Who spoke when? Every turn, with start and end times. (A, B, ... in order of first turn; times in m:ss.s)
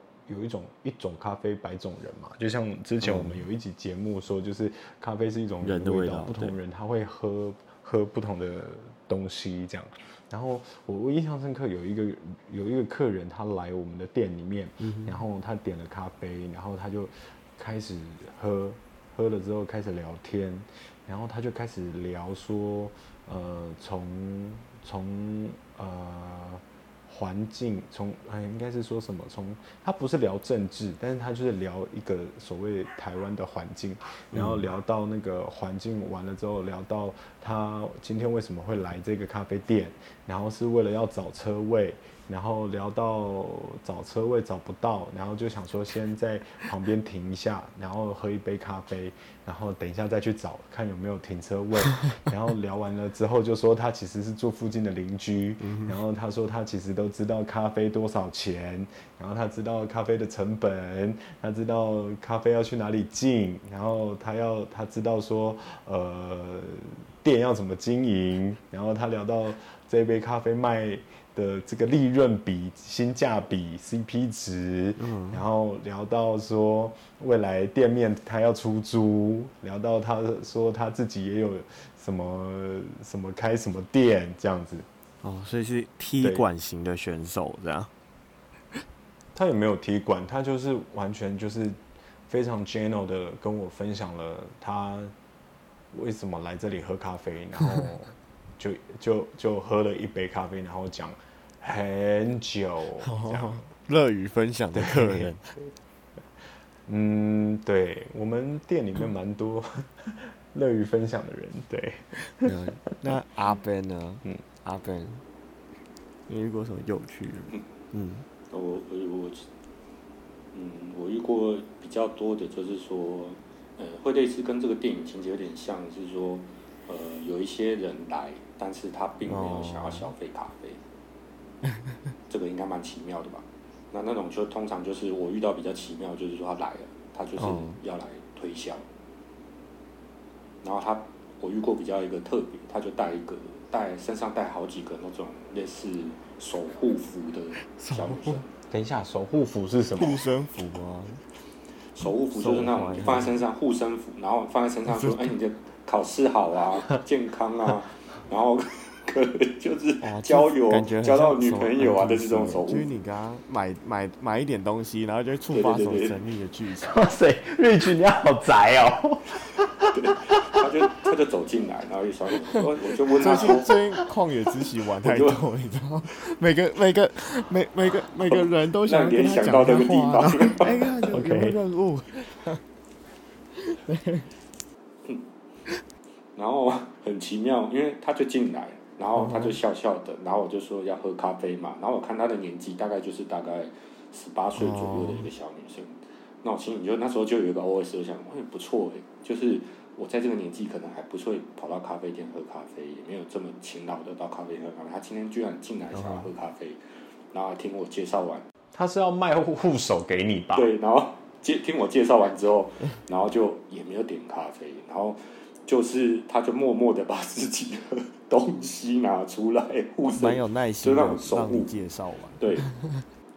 0:00.3-1:24.9 A
0:03.0-0:03.4 B
0:05.6-0:06.6 B
0:14.8-0:15.2 B
0:34.3-0:34.6 B
0:55.6-0:56.0 B
1:15.0-1:15.5 B
1:25.2-1:27.9 B
1:26.2-1:26.4 A
1:29.3-1:35.1 A
1:35.9-1:43.6 A
1:43.0-1:45.5 B
1:44.8-1:45.3 A
1:46.9-1:52.5 A
1:52.4-1:55.2 B
1:56.3-1:58.3 B
1:58.5-1:59.5 C
2:00.5-2:10.8 C
2:09.3-2:10.1 B
2:11.6-2:12.0 B
2:12.3-2:18.9 C
2:17.4-2:17.8 B
2:20.6-2:28.5 C
2:27.6-2:28.4 B
2:28.7-2:30.2 A
2:30.0-2:31.2 B
2:31.9-2:42.9 C
2:32.3-2:33.4 B
2:34.9-2:35.4 B
2:40.0-2:46.9 B
2:45.5-2:46.2 C
2:46.8-2:50.4 A
2:49.9-2:53.8 C
2:53.2-3:02.6 B
2:55.0-2:55.4 C
2:58.3-3:00.9 C
3:01.1-3:01.6 A
3:03.6-3:04.3 B
3:06.4-3:26.8 C
3:09.1-3:09.6 B
3:14.6-3:15.3 B
3:25.9-3:26.3 B
3:27.3-3:28.4 C
3:28.7-3:30.7 A
3:30.5-3:41.7 C
3:40.2-3:43.0 B
3:42.4-3:42.7 C